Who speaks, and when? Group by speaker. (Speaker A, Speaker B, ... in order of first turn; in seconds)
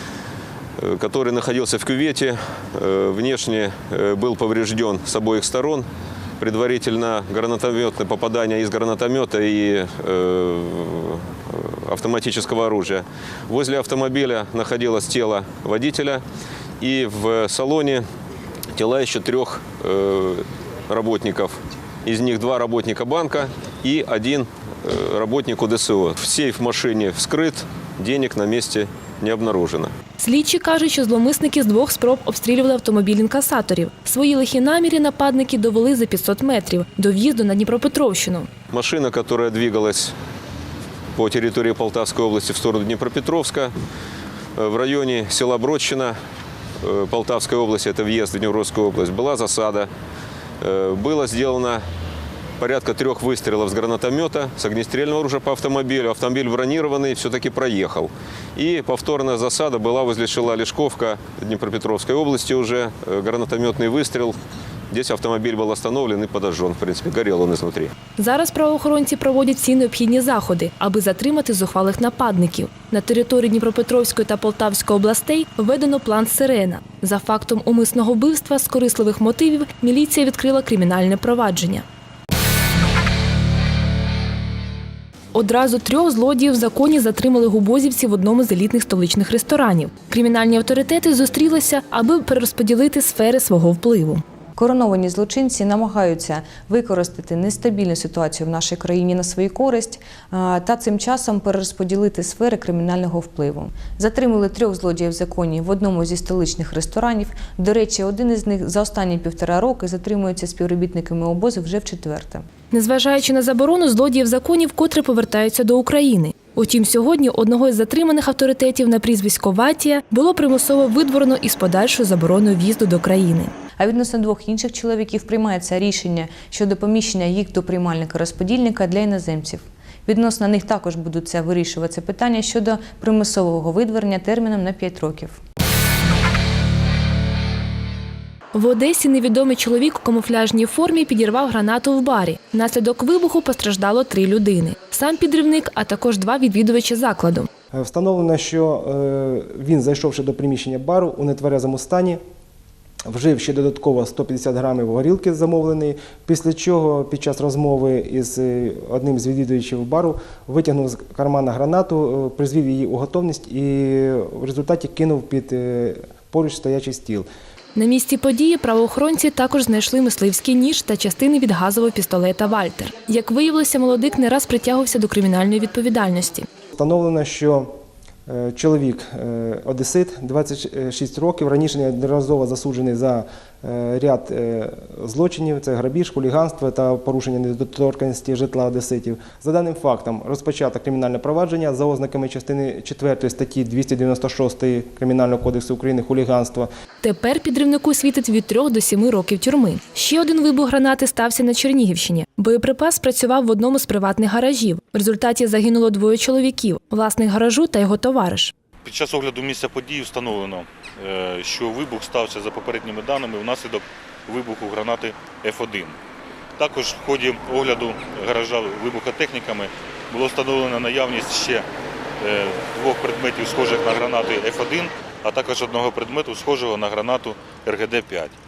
Speaker A: 0.8-5.9, 6.4-16.2, 16.8-18.0, 18.7-29.9, 38.7-40.1, 41.1-43.7, 44.5-46.2, 46.8-49.9, 50.6-51.8, 52.6-64.4, 64.9-67.9
Speaker B: 30.2-38.5, 68.2-81.8, 85.3-94.2, 112.7-123.5, 138.5-147.5, 167.7-176.4, 197.0-208.5
Speaker C: 94.6-112.4, 123.8-135.4
Speaker D: 147.7-152.2, 153.1-167.3, 176.7-177.7, 178.3-196.7
Speaker E: 208.8-216.0, 216.6-221.7, 222.2-228.3